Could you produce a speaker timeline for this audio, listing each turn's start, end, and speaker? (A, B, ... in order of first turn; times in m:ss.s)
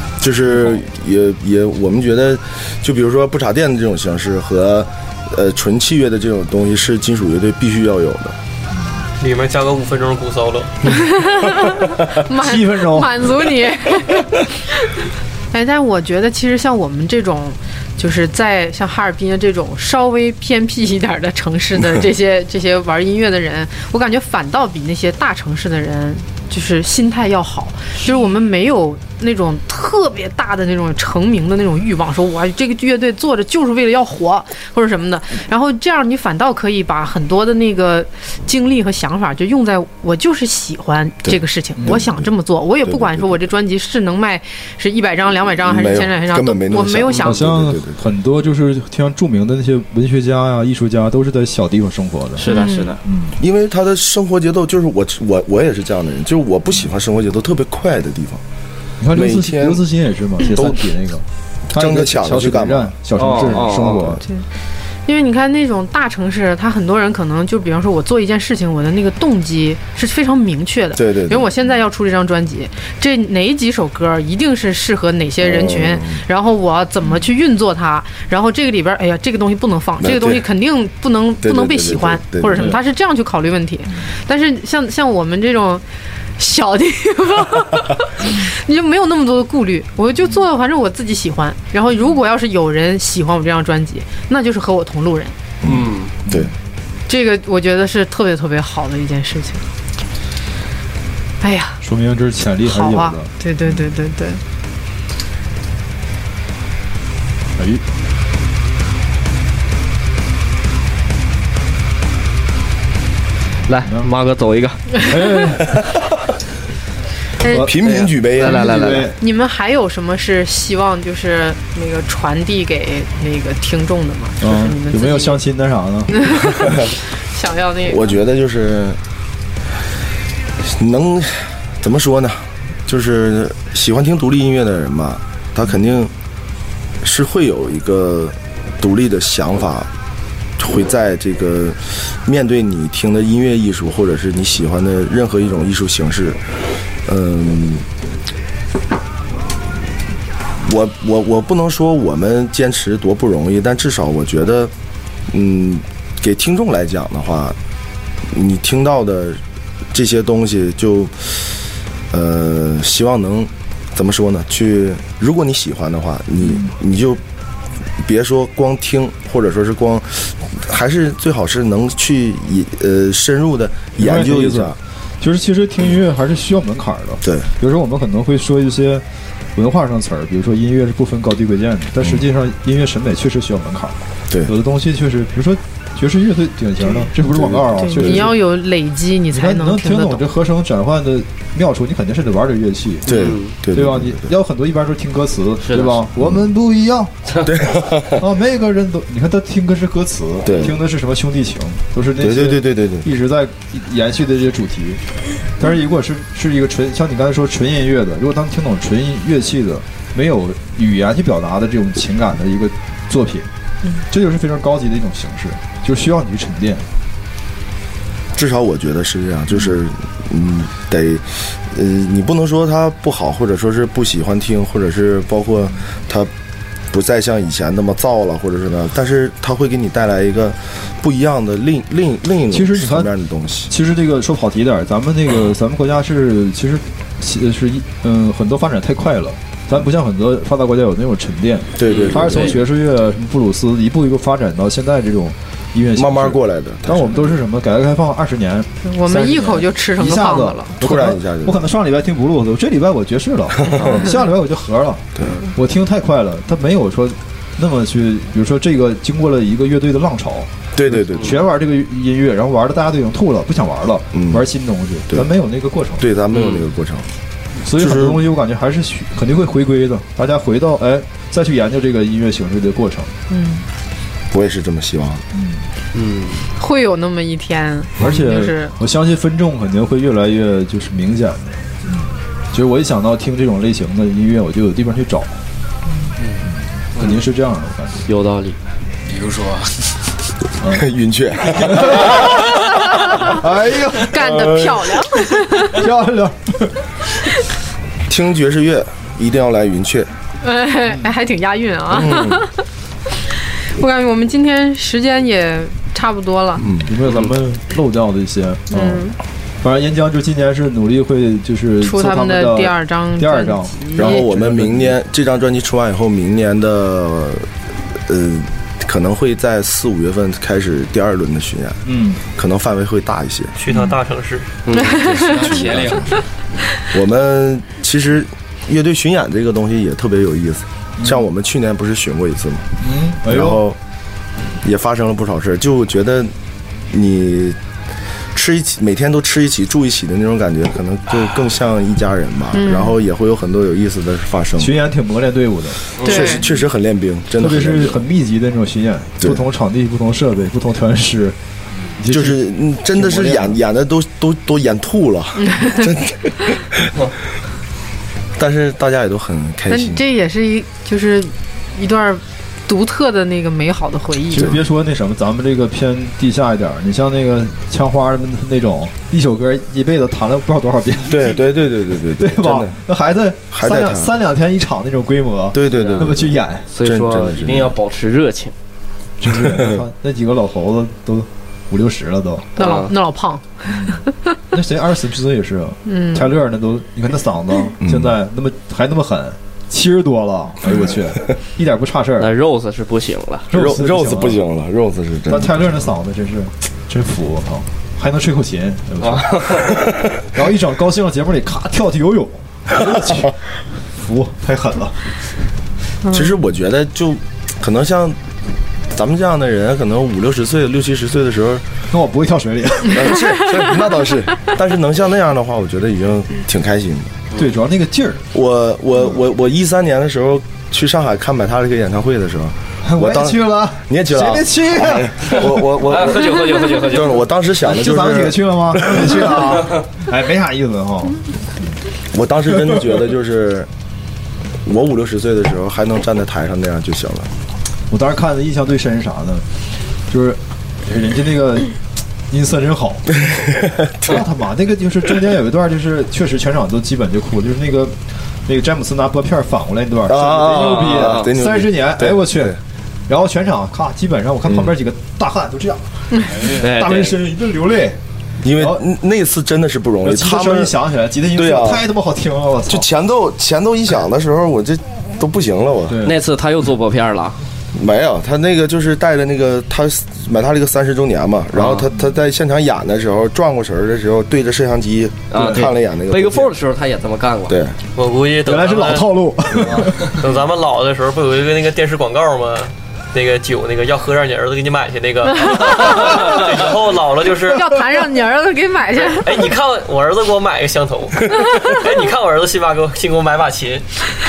0:00.2-0:08.4 A
0:09.2-0:10.8 B
0:10.9-0:15.0 C
0:12.3-0:13.3 D
0:15.5-0:47.5 C
0:41.2-0:42.3 A
0:41.8-0:42.0 D
0:42.8-0:43.3 A
0:45.6-0:48.0 A
0:47.2-0:53.4 D
0:52.4-0:53.0 E
0:52.5-0:53.0 C
0:53.4-0:58.4 A
0:59.0-1:04.2 D
0:59.1-0:59.8 A
1:00.4-1:00.9 A
1:01.7-1:03.6 A
1:03.2-1:04.1 E
1:05.0-1:25.8 C
1:10.9-1:11.5 A
1:15.4-1:16.2 A
1:20.0-1:20.4 A
1:21.4-1:22.7 A
1:26.4-1:35.3 C
1:35.6-1:36.5 A
1:35.6-1:36.1 E
1:36.3-1:36.5 D
1:37.1-1:39.6 C
1:41.4-1:41.8 C
1:41.8-1:43.3 D
1:42.6-1:44.4 C
1:47.6-1:47.8 D
1:53.7-1:54.9 E
1:55.0-1:55.7 D
1:57.4-1:57.7 C
1:57.4-1:57.7 D
1:57.5-1:58.9 A
1:57.8-1:59.1 E
1:58.4-1:59.2 D
1:59.2-2:05.4 C
2:04.4-2:06.4 D
2:06.2-2:08.2 C
2:07.8-2:09.0 A
2:10.7-2:16.1 A
2:17.0-2:19.9 A
2:20.6-2:26.4 A
2:27.0-2:27.8 A
2:30.6-2:34.7 A
2:35.3-2:37.6 A
2:38.3-2:39.4 A
2:39.9-2:41.6 A
2:42.1-2:47.2 A
2:46.4-2:46.7 D
2:48.0-2:54.8 A
2:54.0-3:08.4 D
2:57.2-2:57.5 A
3:07.2-3:08.3 A
3:07.8-3:10.2 C
3:09.3-3:13.1 D
3:13.0-3:14.2 A
3:13.1-3:13.5 E
3:13.7-3:17.1 D
3:15.6-3:16.1 E
3:17.4-3:18.2 A
3:18.2-3:25.0 D
3:20.4-3:20.8 A
3:22.2-3:23.0 A
3:25.6-3:33.5 D
3:34.1-3:36.9 D
3:38.3-3:46.3 A
3:46.9-3:53.7 A
3:52.5-3:53.1 D
3:53.7-4:26.0 D
4:01.8-4:02.6 A
4:01.9-4:02.4 E
4:05.9-4:07.3 A
4:08.8-4:10.7 C
4:10.8-4:11.6 A
4:13.6-4:14.0 A
4:20.7-4:21.4 A
4:24.1-4:24.4 A
4:26.0-4:27.1 A
4:26.3-4:26.6 E
4:27.6-4:33.1 D
4:27.8-4:28.2 A
4:33.3-4:33.6 C
4:34.3-4:35.2 A
4:35.3-4:35.6 D
4:35.9-4:36.5 E
4:36.6-4:38.7 C
4:38.0-4:45.4 D
4:46.4-4:48.1 D
4:48.1-4:48.6 E
4:49.1-4:49.9 F
4:50.6-4:50.9 D
4:50.7-4:52.5 A
4:51.6-4:52.2 D
4:52.9-4:53.4 C
4:53.2-4:54.4 D
4:54.0-4:55.8 C
4:54.2-4:55.0 A
4:55.5-4:56.8 D
4:58.1-5:00.1 A
5:00.4-5:02.5 C
5:01.9-5:02.4 A
5:03.8-5:06.7 C
5:06.6-5:06.9 A
5:06.8-5:15.0 D
5:08.7-5:09.2 C
5:11.8-5:14.2 C
5:14.0-5:17.5 A
5:18.1-5:21.8 A
5:21.8-5:22.2 D
5:22.3-5:23.6 A
5:23.6-5:24.5 B
5:23.7-5:23.9 D
5:24.6-5:25.1 E
5:24.7-5:26.2 C
5:24.9-5:26.2 F
5:25.6-5:26.0 A
5:26.9-5:32.7 A
5:31.0-5:31.2 D
5:32.8-5:33.6 D
5:33.3-5:33.8 A
5:34.6-5:36.3 A
5:36.9-5:37.6 A
5:38.3-5:44.7 A
5:42.5-5:43.0 C
5:44.6-5:46.3 D
5:46.0-5:48.0 A
5:46.0-5:46.5 C
5:47.3-5:51.4 D
5:52.0-5:53.6 D
5:52.1-5:56.8 A
5:55.4-5:55.9 C
5:58.4-6:00.0 A
5:59.7-6:04.5 C
6:04.3-6:04.6 A
6:04.3-6:11.4 D
6:11.0-6:12.8 A
6:12.2-6:16.7 D
6:13.5-6:14.1 A
6:15.5-6:17.7 A
6:15.7-6:16.1 E
6:16.7-6:18.5 E
6:19.2-6:22.5 D
6:19.4-6:19.7 A
6:22.6-6:24.3 C
6:22.6-6:22.9 E
6:23.7-6:24.0 D
6:24.5-6:32.3 D
6:25.8-6:26.3 C
6:27.8-6:28.1 A
6:32.2-6:33.5 E
6:33.5-6:34.4 D
6:33.5-6:35.7 A
6:35.3-6:39.6 D
6:39.0-6:39.8 E
6:40.3-6:43.3 D
6:43.9-6:45.0 D
6:46.0-6:46.3 C
6:46.1-6:48.2 A
6:48.9-6:51.6 A
6:51.9-6:53.2 D
6:52.9-6:57.1 A
6:57.4-6:58.3 D
6:58.3-7:09.8 A
7:02.8-7:05.7 D
7:05.8-7:07.2 E
7:07.6-7:11.2 D
7:12.1-7:13.7 A
7:14.6-7:17.3 A
7:17.9-7:19.4 D
7:20.1-7:21.8 D
7:22.3-7:23.2 D
7:23.7-7:24.2 A
7:24.0-7:38.8 D
7:30.1-7:32.6 A
7:30.8-7:31.3 E
7:36.4-7:37.2 E
7:38.4-7:40.7 A
7:40.0-7:42.9 D
7:41.3-7:41.8 A
7:42.7-7:46.0 A
7:45.9-7:46.2 D
7:46.0-7:47.4 E
7:47.7-7:56.5 A
7:51.5-7:51.9 E
7:55.3-7:57.6 E
7:55.3-7:55.6 D
7:57.5-7:57.8 A
7:57.9-7:59.1 B
7:58.4-8:00.2 D
8:00.0-8:07.8 B
8:05.4-8:05.6 C
8:07.5-8:09.4 C
8:09.1-8:13.9 B
8:11.5-8:11.8 C